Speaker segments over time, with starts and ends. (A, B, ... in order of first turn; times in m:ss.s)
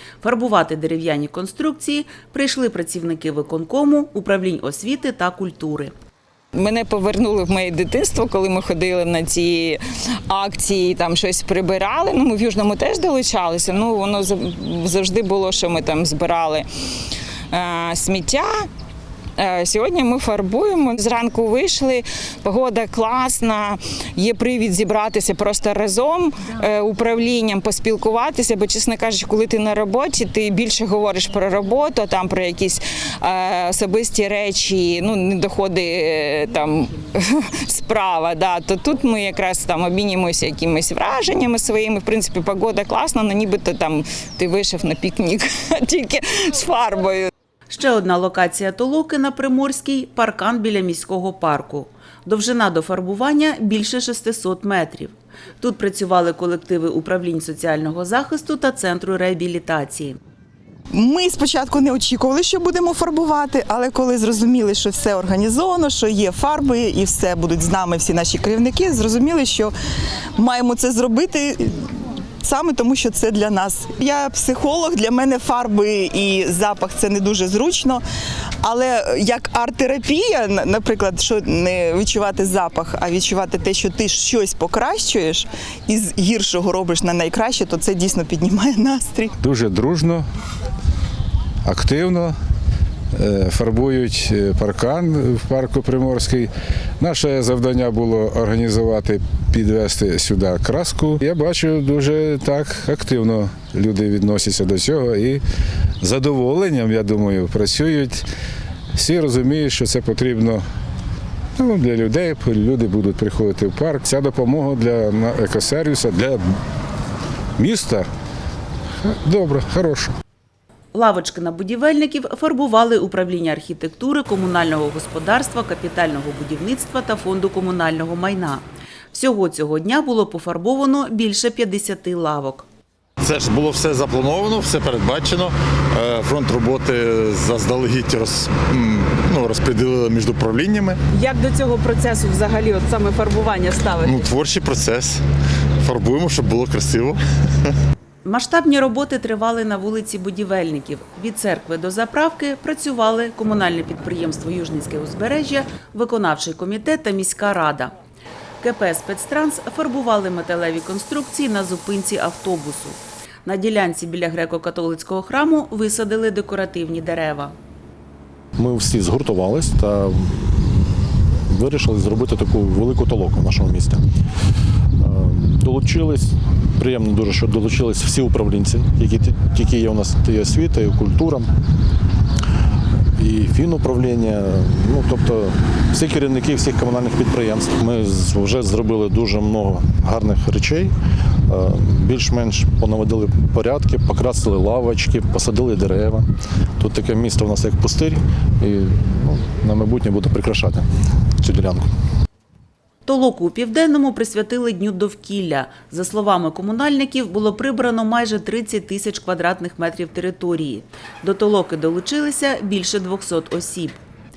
0:00.2-0:05.9 A
0:06.5-0:16.7 B
0:17.5-0:18.7 B
0:19.4-0:47.3 B
0:47.7-1:00.2 A
1:00.9-1:09.7 C
1:10.4-1:11.9 C
1:12.4-1:18.0 C
1:18.6-1:29.3 C
1:29.4-1:30.2 D
1:31.6-1:32.3 D
1:33.1-1:45.4 D
1:46.0-1:48.2 D
1:48.9-1:50.6 D
1:51.6-1:56.4 D
1:57.6-1:58.0 D
1:59.0-2:00.2 D
2:00.9-2:12.6 A
2:13.2-2:21.0 E
2:21.1-2:24.1 F
2:24.0-2:25.2 E
2:25.8-2:27.7 E
2:28.2-2:37.9 A
2:38.6-2:47.5 A
2:48.6-2:54.0 G
2:55.0-3:01.5 G
3:03.2-3:10.9 G
3:11.5-3:16.3 G
3:16.8-3:20.8 G
3:21.4-3:21.9 G
3:23.0-3:34.0 A